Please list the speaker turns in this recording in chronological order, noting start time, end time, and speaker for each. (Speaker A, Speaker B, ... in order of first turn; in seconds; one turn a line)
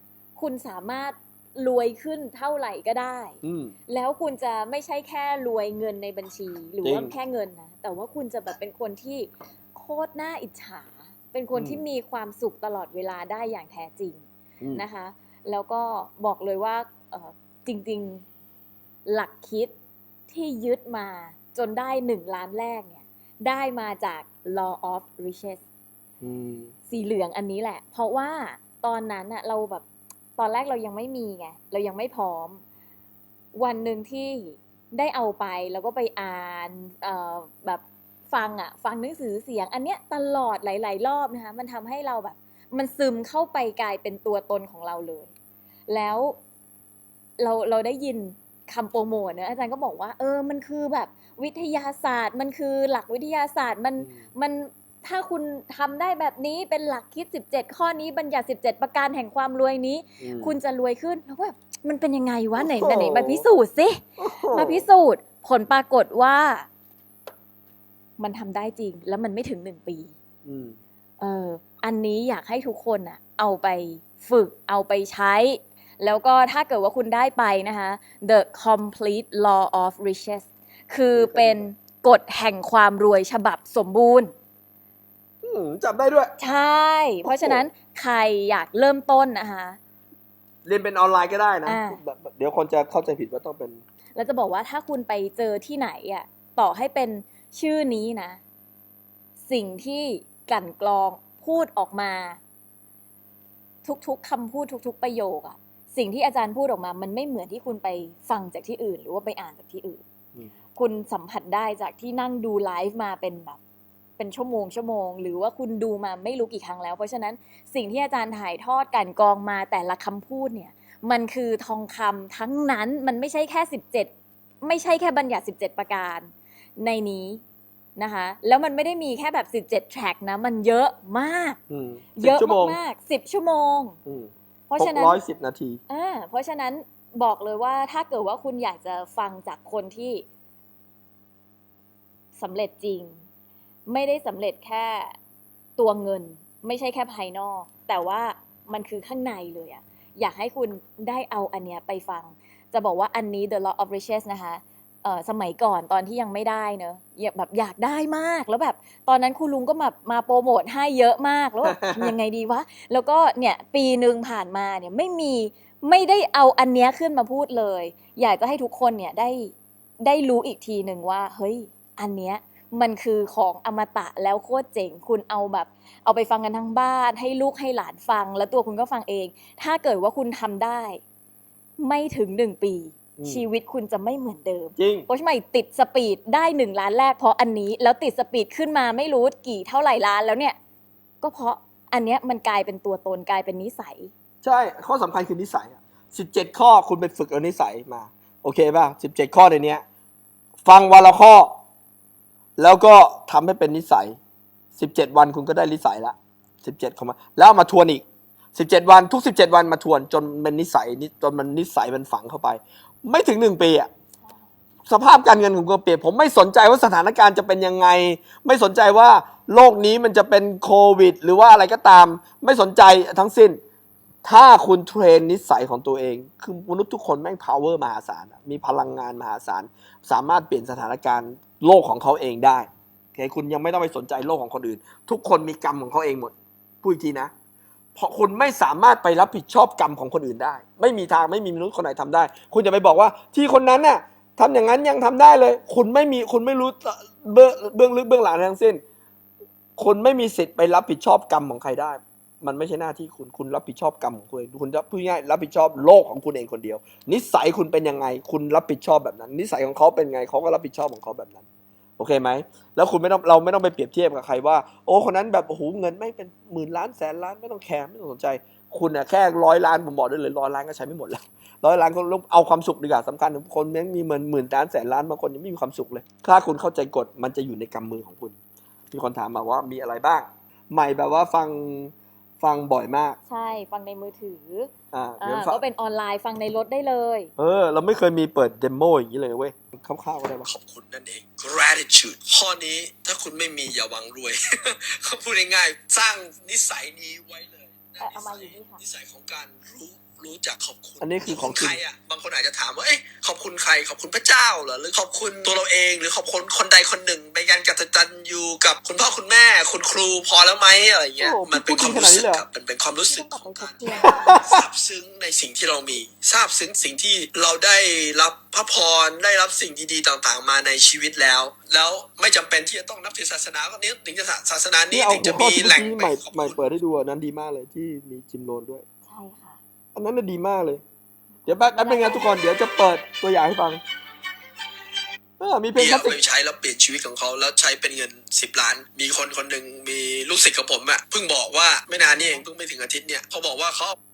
Speaker A: 0.4-18.2
Speaker B: 3.4-3.7
Speaker B: 6.8-7.1
Speaker B: 11.5-11.8
Speaker A: 19.1-19.7
Speaker A: 20.3-25.6
Speaker B: 26.2-26.7
Speaker A: 26.9-29.8
Speaker A: 30.4-32.6
Speaker A: 33.5-45.3
Speaker A: 45.9-46.4
Speaker A: 47.4-66.7
Speaker B: 60.2-60.6
Speaker B: 62.6-63.5
Speaker B: 64.2-64.8
Speaker A: 68.2-70.1
Speaker B: 70.4-70.8
Speaker A: 71.2-84.3
Speaker B: 81.1-81.7
Speaker B: 85.4-86.3
Speaker A: 86.4-89.8
Speaker B: 87.2-87.7
Speaker B: 90.6-93.8
Speaker A: 91.7-92.0
Speaker A: 94.1-98.4
Speaker A: 99.4-102.4
Speaker A: 103.8-110.0
Speaker A: 110.7-113.6
Speaker A: 114.2-124.1
Speaker A: 124.6-127.4
Speaker A: 128.0-131.6
Speaker B: 131.7-132.8
Speaker A: 132.2-134.0
Speaker B: 134.1-135.8
Speaker A: 134.7-135.2
Speaker A: 135.9-140.2
Speaker A: 142.3-143.2
Speaker A: 143.9-145.2
Speaker A: 145.8-181.0
Speaker B: 161.6-162.1
Speaker A: 181.8-190.6
Speaker B: 183.2-183.4
Speaker B: 184.8-185.1
Speaker A: 191.2-194.1
Speaker B: 194.4-199.8
Speaker B: 200.6-201.6
Speaker B: 202.6-204.2
Speaker B: 204.7-208.0
Speaker B: 208.5-213.9
Speaker B: 214.8-223.6
Speaker B: 224.2-237.3
Speaker B: 237.9-248.8
Speaker B: 249.8-261.4
Speaker B: 262.0-278.4
Speaker B: 278.9-283.2
Speaker A: 283.3-287.3
Speaker B: 284.9-285.6
Speaker B: 287.4-290.5
Speaker C: 290.4-326.6
Speaker A: 298.0-298.8
Speaker B: 301.0-301.8
Speaker B: 311.2-312.4
Speaker A: 313.0-314.3
Speaker B: 313.9-314.6
Speaker B: 324.9-328.8
Speaker A: 329.0-329.6
Speaker B: 329.9-330.8
Speaker B: 331.4-333.8
Speaker A: 331.7-332.4
Speaker B: 335.4-336.2
Speaker C: 335.8-343.9